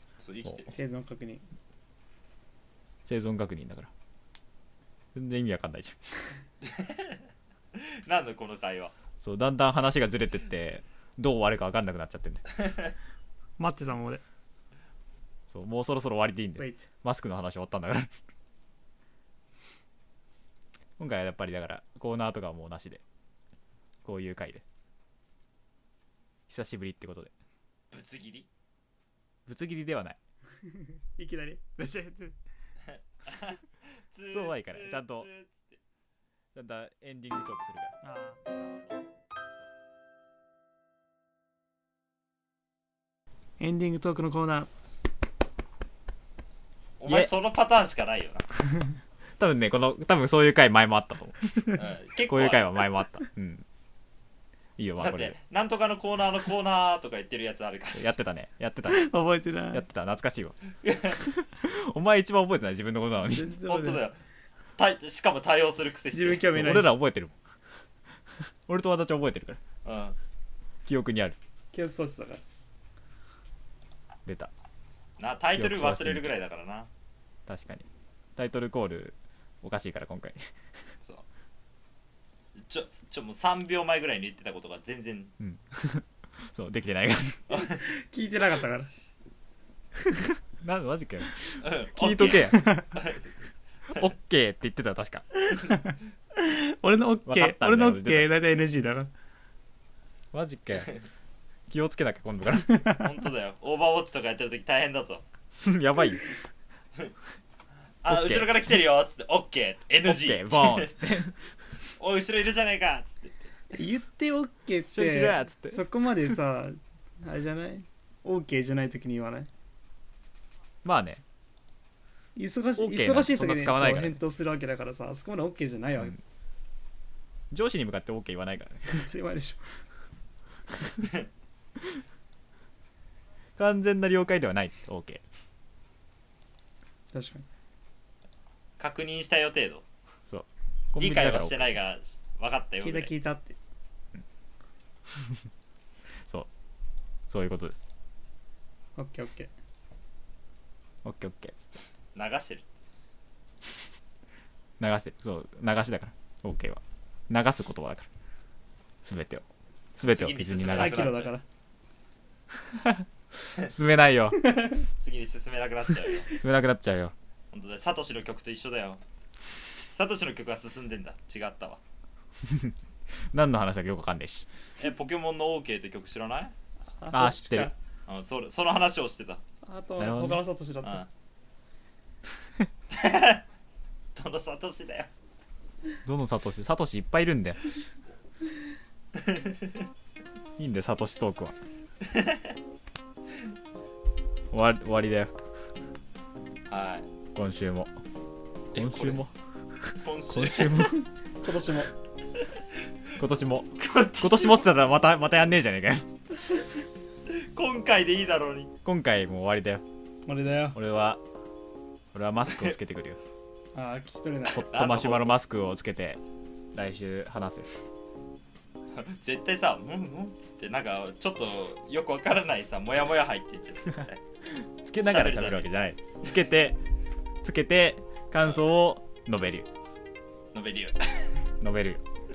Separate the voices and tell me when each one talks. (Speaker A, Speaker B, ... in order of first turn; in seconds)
Speaker A: 0.2-0.8, 6.6-7.2, 7.8-8.9, 12.6-12.9, 27.9-28.5, 33.3-33.6, 34.1-35.8, 47.0-48.5, 51.8-52.8, 55.0-58.0, 60.8-61.2, 63.6-64.2, 64.8-66.6, 69.8-70.2, 75.2-76.9, 82.6-85.3, 87.5-87.8, 91.6-93.4, 103.0-105.2, 108.0-111.0, 112.0-113.4, 138.8-139.8, 141.0-143.1, 152.2-152.7, 160.0-161.3, 165.0-166.3, 167.5-169.0, 169.9-171.8, 174.8-176.5, 178.1-179.4, 180.8-181.1, 182.9-183.4, 184.2-185.1, 189.2-189.9, 192.0-192.5, 196.7-197.1, 198.7-199.2, 200.0-201.0, 203.8-204.7, 207.3-208.7, 214.6-215.4, 218.9-224.2, 225.0-225.7, 230.5-231.3
Speaker B: 0.7-1.4, 13.6-14.2, 16.6-16.9, 31.2-32.4, 38.0-38.4, 43.6-44.7, 58.9-59.8, 63.3-64.0, 66.1-67.0, 71.7-72.4, 87.8-88.9, 92.5-92.9, 95.4-99.1, 102.7-103.0, 113.7-119.5, 122.4-126.2, 128.9-129.7, 137.1-137.4, 142.8-143.6, 149.0-149.5, 160.8-161.4, 164.4-164.8, 177.0-177.7, 179.7-181.0, 201.4-201.9, 210.3-210.8, 213.8-214.7
Speaker C: 3.1-3.9, 5.2-6.0, 9.2-12.4, 15.5-18.1, 21.0-23.0, 24.1-24.6, 26.5-27.3, 29.5-30.2, 34.3-35.3, 36.5-38.0, 47.1-47.3, 49.4-53.6, 54.8-55.4, 58.0-59.1, 59.7-60.6, 61.2-63.6, 66.5-67.4, 68.7-69.6, 70.9-71.4, 74.3-74.5, 75.6-76.4, 77.5-80.4, 85.4-87.4, 90.0-92.6, 93.9-95.3, 97.2-98.4, 100.3-100.9, 101.7-102.8, 105.6-106.2, 108.1-108.7, 110.0-111.4, 114.9-115.8, 120.8-121.2, 122.8-124.2, 127.5-129.0, 133.6-135.2, 140.3-141.8, 147.3-147.8, 151.0-151.7, 154.8-158.1, 159.0-159.4, 160.0-161.2, 162.6-164.4, 166.3-167.1, 172.4-172.8, 173.3-174.5, 177.1-177.7, 180.0-180.4, 186.1-187.6, 190.6-191.6, 194.5-195.3, 197.3-197.9, 198.7-199.3, 199.9-201.1, 203.2-206.1, 208.8-209.8, 210.7-211.2, 212.1-213.2, 214.5-216.2, 216.7-217.7, 224.5-226.8, 227.4-229.7, 231.6-232.0